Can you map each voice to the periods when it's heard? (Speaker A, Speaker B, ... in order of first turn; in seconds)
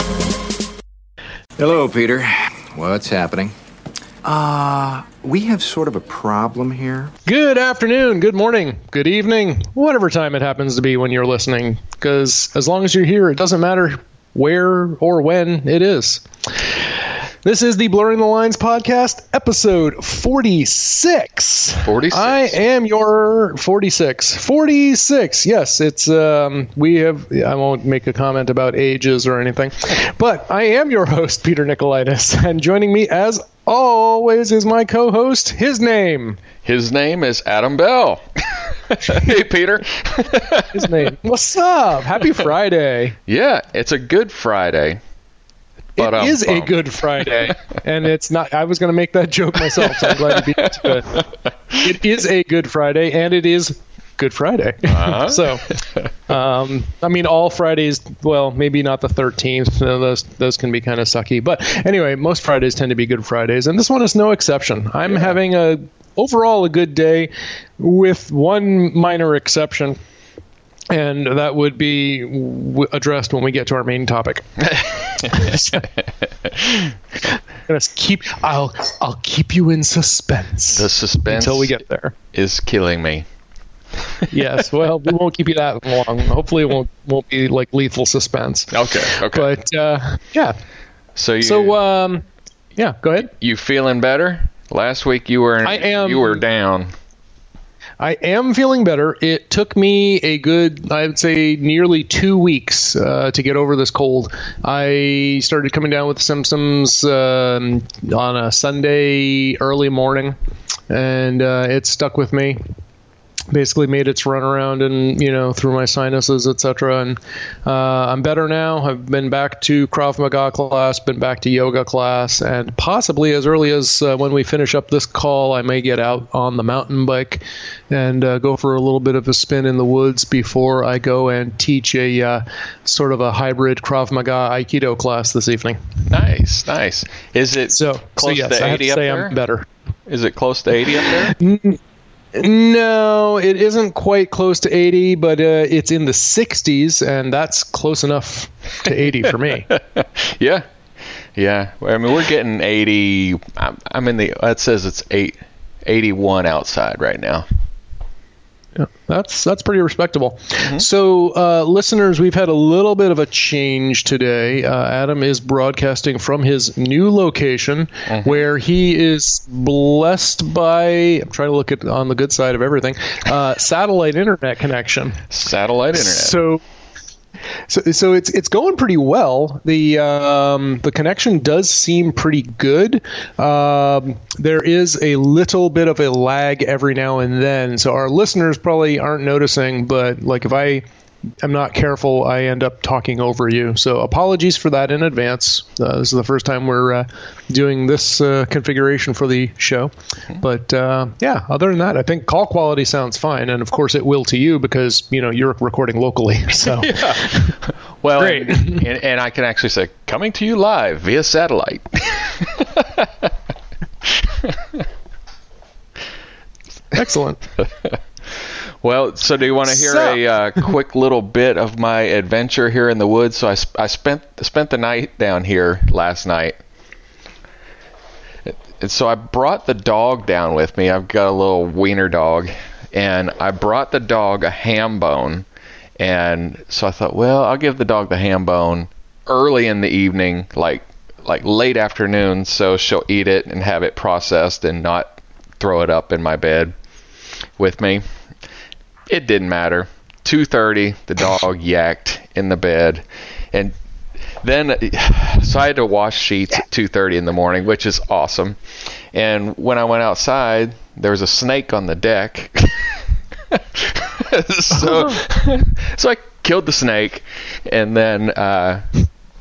Speaker A: 1.6-3.5, 4.2-7.1
Speaker B: 7.2-16.8, 17.4-36.4, 40.7-43.2, 46.0-55.7, 56.3-70.0, 70.9-74.5, 75.3-75.8, 77.7-82.1, 84.3-90.6, 91.4-92.2, 92.8-93.3, 95.6-96.4, 98.0-110.3, 110.9-112.6, 113.5-135.8, 137.7-139.7, 141.3-141.8, 142.3-149.7, 158.8-175.2, 175.9-176.6, 177.7-190.8, 191.4-207.5, 208.2-208.8, 216.9-217.4, 219.7-220.2, 264.8-265.1
Speaker C: 21.8-22.6, 36.6-41.0, 43.3-45.0, 46.0-47.2, 49.8-50.9, 54.9-56.1, 74.6-77.0, 80.7-81.8, 82.3-83.2, 88.7-89.5, 91.2-91.8, 93.2-96.9, 136.1-139.3, 140.1-141.3, 149.7-150.7, 151.3-157.4, 168.1-168.4, 175.3-176.4, 206.7-213.3, 214.0-214.8, 217.6-218.0, 218.8-226.6, 228.5-235.5, 236.0-246.7, 247.6-248.0, 249.1-253.7, 254.4-258.6, 259.1-268.9